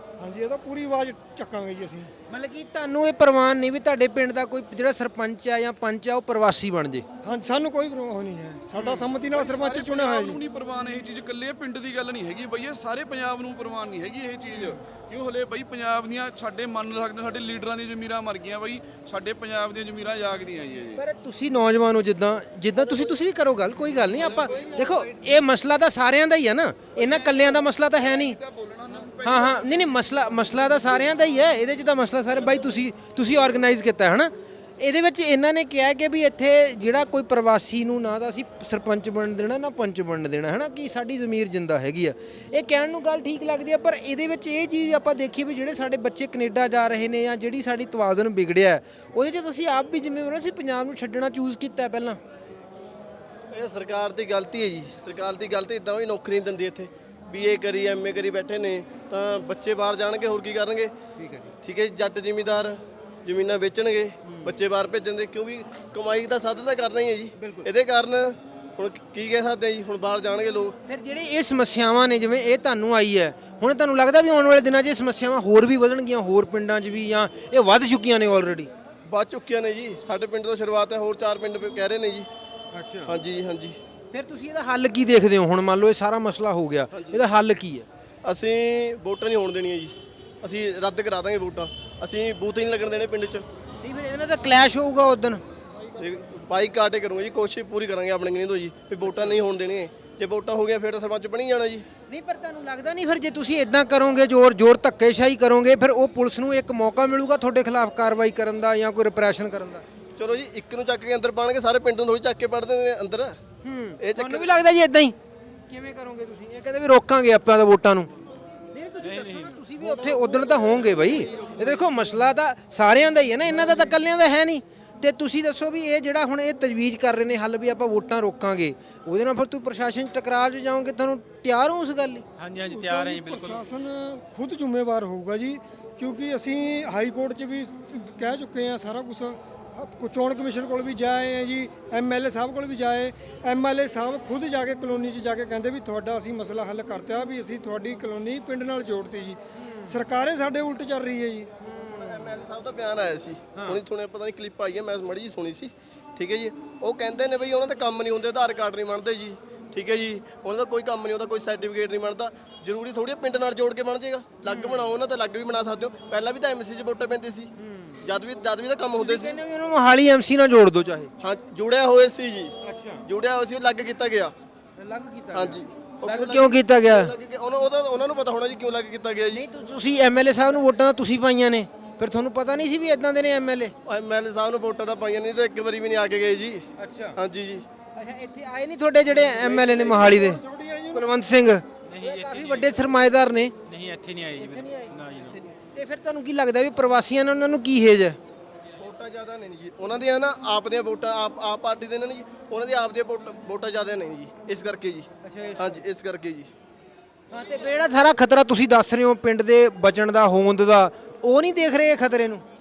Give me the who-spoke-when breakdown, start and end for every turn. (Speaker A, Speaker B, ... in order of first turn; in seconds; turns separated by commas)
Speaker A: 0.2-2.1, Speaker B: 2.3-7.0, Speaker A: 7.2-10.4, Speaker C: 9.0-21.0, Speaker B: 21.0-28.4, Speaker C: 24.2-24.9, Speaker C: 26.9-30.0, Speaker B: 29.2-52.2, Speaker D: 53.5-60.9, Speaker B: 61.2-61.5, Speaker D: 61.6-70.8, Speaker B: 64.3-64.5, Speaker B: 67.4-67.7, Speaker B: 70.9-78.7, Speaker D: 79.1-82.3, Speaker B: 82.7-83.1, Speaker D: 83.1-83.8, Speaker B: 84.1-87.9, Speaker D: 86.9-87.2, Speaker D: 88.2-93.5, Speaker B: 93.8-95.4, Speaker D: 96.0-101.8, Speaker B: 102.1-109.8, Speaker D: 110.2-113.4, Speaker B: 113.6-115.2, Speaker D: 114.0-114.5, Speaker B: 115.7-118.1, Speaker B: 118.7-132.3, Speaker E: 119.0-119.6, Speaker D: 119.8-121.7, Speaker E: 132.4-133.6, Speaker A: 132.6-151.5, Speaker B: 149.6-149.9, Speaker B: 151.7-152.3, Speaker D: 152.0-167.5, Speaker B: 164.5-164.9, Speaker B: 167.6-168.0, Speaker D: 168.0-169.4, Speaker B: 169.0-171.1, Speaker D: 171.2-172.5, Speaker B: 172.6-173.0, Speaker D: 173.1-174.3, Speaker B: 174.8-177.1, Speaker D: 175.3-179.4, Speaker B: 179.3-183.7, Speaker D: 183.8-187.7, Speaker B: 186.8-187.2, Speaker B: 188.0-193.6, Speaker D: 189.3-190.1, Speaker A: 189.8-191.1, Speaker E: 191.9-192.7, Speaker E: 193.7-195.4, Speaker B: 194.3-198.2, Speaker D: 198.8-206.5, Speaker B: 205.2-205.8, Speaker B: 207.3-212.4